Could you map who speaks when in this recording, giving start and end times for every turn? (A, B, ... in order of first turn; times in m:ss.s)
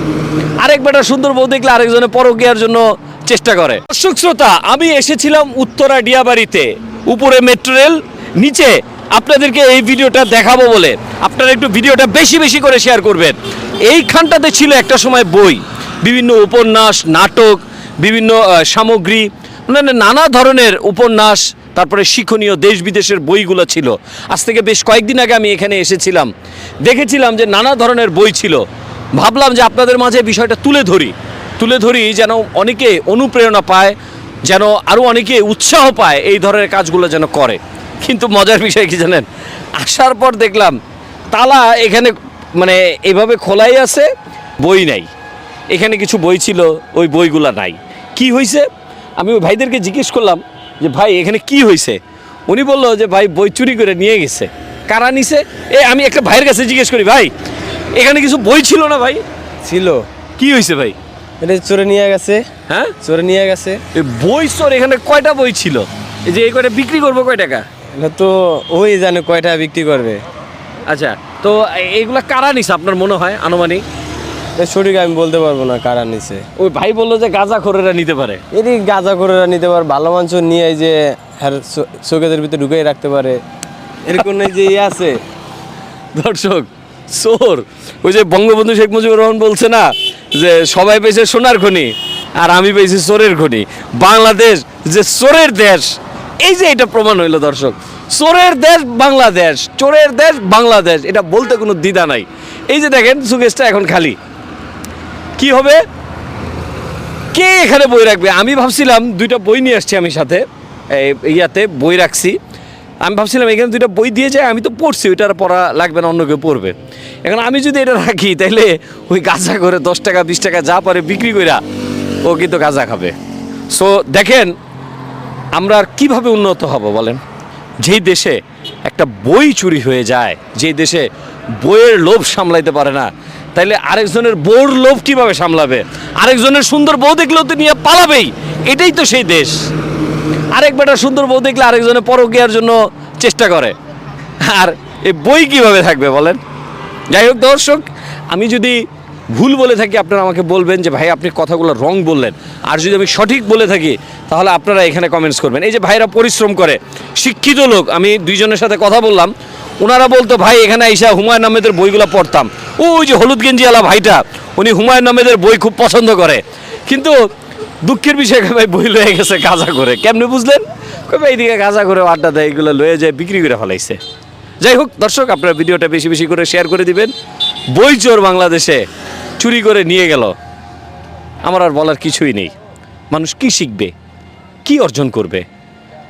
0:00.6-0:26.3 A
0:26.8-0:28.6 A
0:29.1-0:40.8 A
0:41.3-0:44.1 A
0:44.6-0:45.1 A
0:45.7-0:48.7 A
0:49.2-0:57.3 A
0:57.9-0:59.2 A
0:59.6-1:00.0 B
1:00.4-1:01.0 A
1:01.4-1:02.4 B
1:02.7-1:02.9 A
1:03.0-1:03.8 B
1:03.9-1:07.6 A
1:08.0-1:10.2 B
1:10.8-1:13.8 A
1:14.6-1:16.4 B
1:16.6-1:18.4 A
1:18.5-1:23.4 B
1:24.0-1:25.2 B
1:26.1-1:44.2 A
1:45.4-1:45.8 A
1:47.3-1:52.4 A
1:53.0-2:01.6 A
2:02.2-2:03.1 A
2:03.7-2:04.5 A
2:05.5-2:07.2 A
2:07.8-2:11.1 A
2:11.6-2:19.7 A
2:20.5-2:23.7 A
2:24.4-2:26.4 A
2:27.1-2:47.2 A
2:47.8-2:54.0 A
2:54.6-2:57.1 A
2:57.7-2:58.8 A
2:59.4-3:00.3 A
3:01.4-3:02.5 A
3:03.1-3:03.9 A
3:04.6-3:05.4 A